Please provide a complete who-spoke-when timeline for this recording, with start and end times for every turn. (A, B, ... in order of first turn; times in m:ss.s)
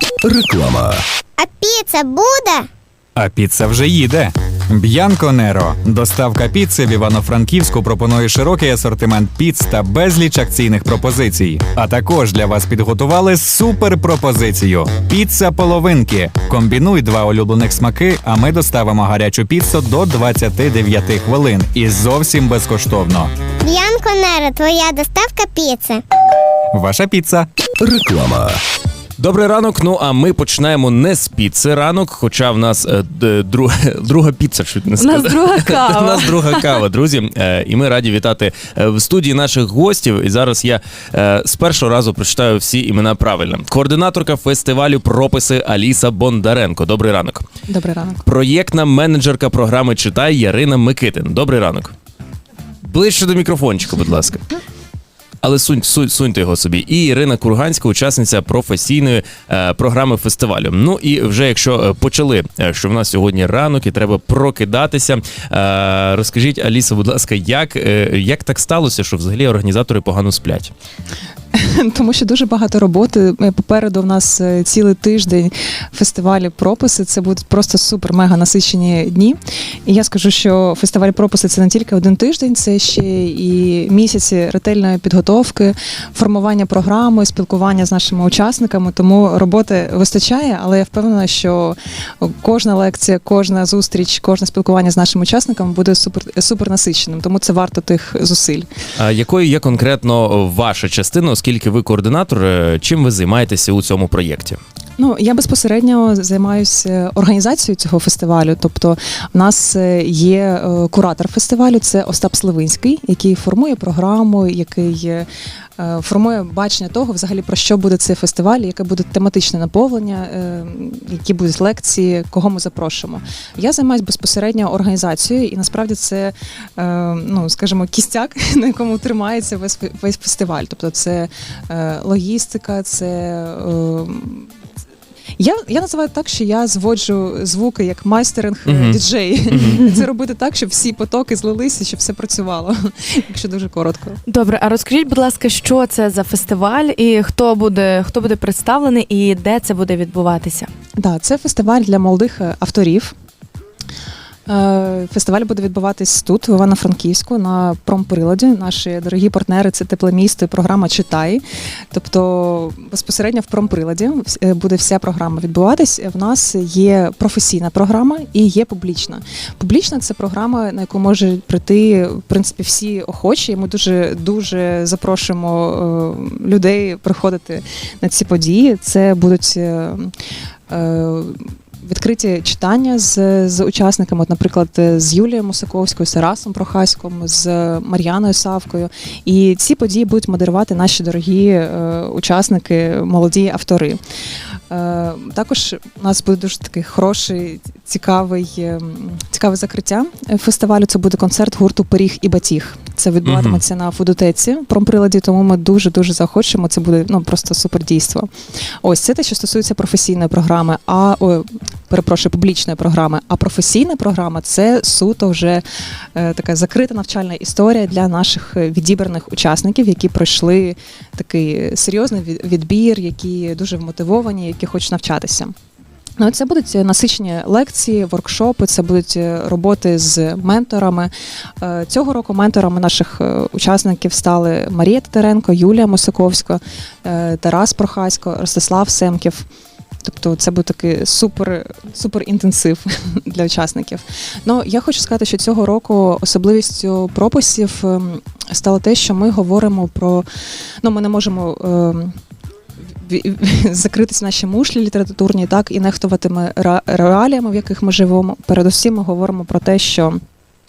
0:00.2-0:01.0 A
0:01.4-0:02.6 B
0:03.2-0:23.3 C
0:23.6-0:26.0 B
0:26.7-0:27.5 C
0:29.2-0:47.4 A
0:35.0-0:36.8 D
0:47.7-0:48.2 E
0:48.2-0:51.9 A
0:52.8-0:54.4 A
0:55.4-1:10.7 A
1:11.5-1:38.7 E
1:39.0-1:44.6 A
1:45.0-1:55.3 E
1:55.8-2:14.5 E
2:15.4-2:24.2 E
2:18.6-2:19.0 A
2:24.3-2:30.7 D
2:31.0-2:33.1 E
2:34.5-3:00.1 E
3:00.7-3:14.0 E
3:14.7-3:28.3 E
3:23.2-3:23.6 A
3:28.8-3:35.6 E
3:36.1-3:45.5 E
3:46.2-3:51.1 E
3:51.6-3:59.4 E
4:00.0-4:10.2 E
4:10.8-4:12.1 E
4:13.0-4:20.2 E